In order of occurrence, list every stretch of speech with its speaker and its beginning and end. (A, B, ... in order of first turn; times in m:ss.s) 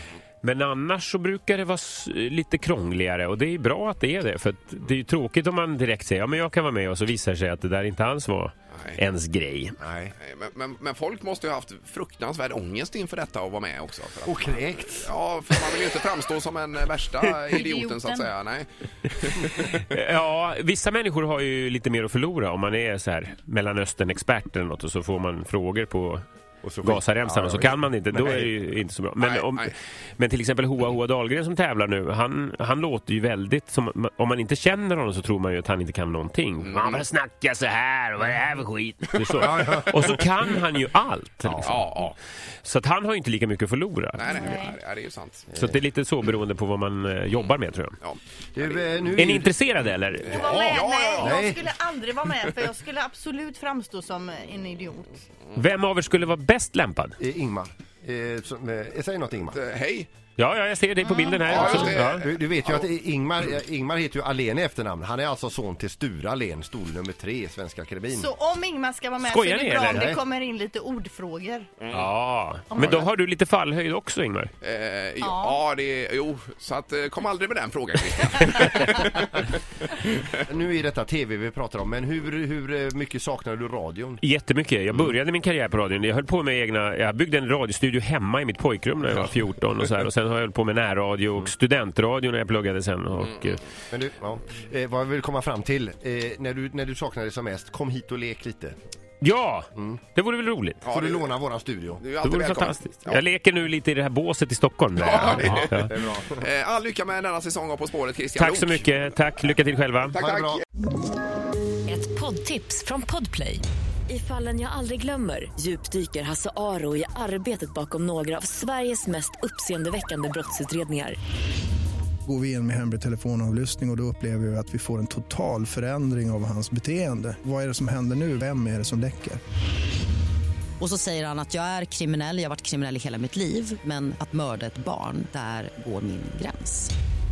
0:00.4-0:09.8 A
0:08.7-0:09.0 B
0:09.8-0:10.1 C
0:10.2-0:19.8 B
0:14.2-0:15.1 C
0:17.5-0:18.3 D
0:19.4-0:26.2 A
0:26.6-0:27.8 C
0:26.8-0:41.9 A
0:29.2-0:29.7 B
0:36.6-0:37.0 B
0:39.3-0:40.0 C
0:41.5-0:42.1 B
0:42.6-0:44.4 A
0:44.1-0:45.6 B
0:44.2-0:44.8 D
0:45.5-0:48.0 A
0:48.0-0:49.2 B
0:48.5-0:49.5 C
0:49.2-0:50.4 A
0:50.2-0:55.2 D
0:50.3-0:51.6 C
0:50.3-0:51.4 B
0:55.6-0:57.1 A
0:57.2-0:59.6 C
0:59.5-1:00.1 B
1:00.4-1:02.3 A
1:01.0-1:01.7 D
1:01.4-1:02.8 B
1:01.5-1:08.3 C
1:08.1-1:11.7 D
1:09.2-1:10.1 A
1:09.9-1:10.2 C
1:11.8-1:12.0 B
1:11.9-1:14.5 A
1:12.7-1:13.0 D
1:14.6-1:20.4 B
1:15.2-1:15.6 D
1:20.5-1:24.2 C
1:24.2-1:33.6 A
1:33.2-1:33.5 B
1:33.9-1:38.8 C
1:39.2-1:40.8 A
1:40.8-1:41.3 B
1:40.9-1:42.0 C
1:42.0-1:43.2 B
1:42.2-1:45.9 A
1:45.0-1:48.8 B
1:45.2-1:46.4 C
1:48.4-1:50.1 A
1:50.1-1:50.6 B
1:50.2-1:50.6 C
1:51.9-2:01.2 E
2:02.2-2:09.4 F
2:10.8-2:16.9 G